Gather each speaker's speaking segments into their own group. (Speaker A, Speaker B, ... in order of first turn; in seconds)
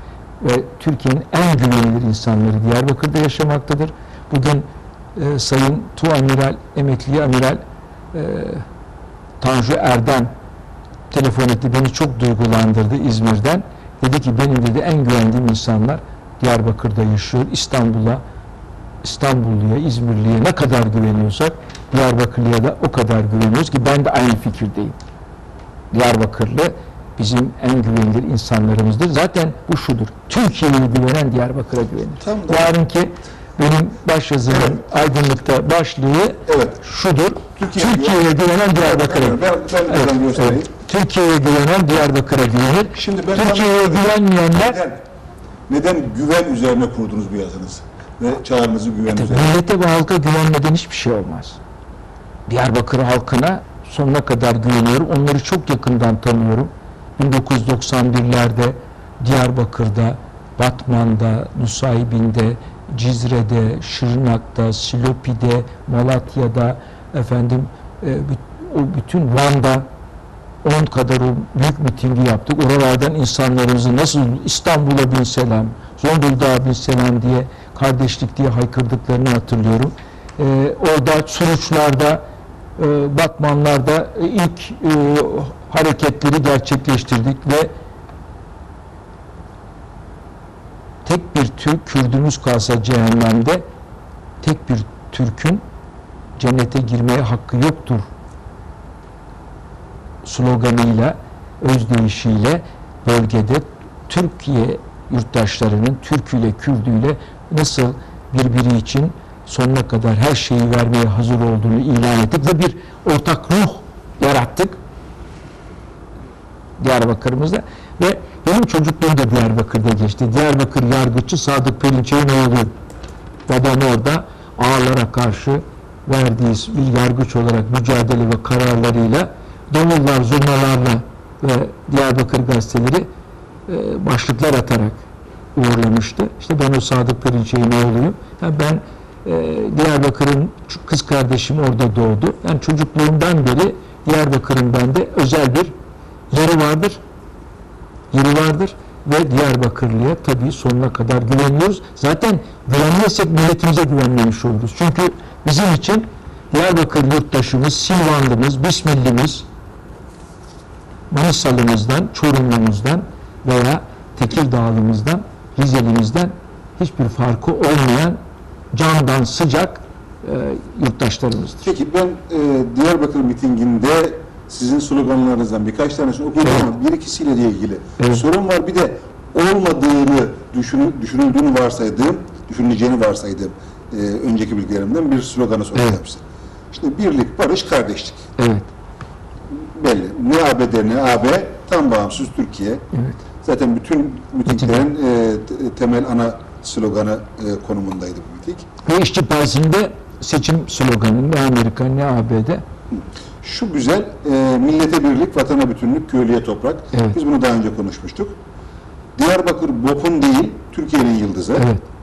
Speaker A: 0.4-7.6, 8.1-8.6, 9.4-10.3, 11.1-18.2, 19.0-24.9, 25.9-44.8, 49.1-51.6, 52.5-69.9, 70.6-82.2, 82.8-87.7, 91.0-93.6, 94.4-95.6, 96.4-98.1, 100.2-114.8, 116.8-122.7, 123.5-133.1, 133.7-135.0, 135.5-145.7, 146.3-147.0, 148.1-159.4, 161.1-168.2, 168.7-171.7, 178.0-178.2, 188.4-188.7, 192.9-193.2, 194.5-194.9, 198.8-202.6, 211.6-211.8
Speaker B: 32.2-32.7, 36.5-36.8, 37.6-38.2, 38.8-40.7, 42.9-45.0, 45.7-49.6, 171.6-186.2, 186.7-188.2, 189.5-192.8, 193.4-198.7, 202.9-208.3, 209.2-211.7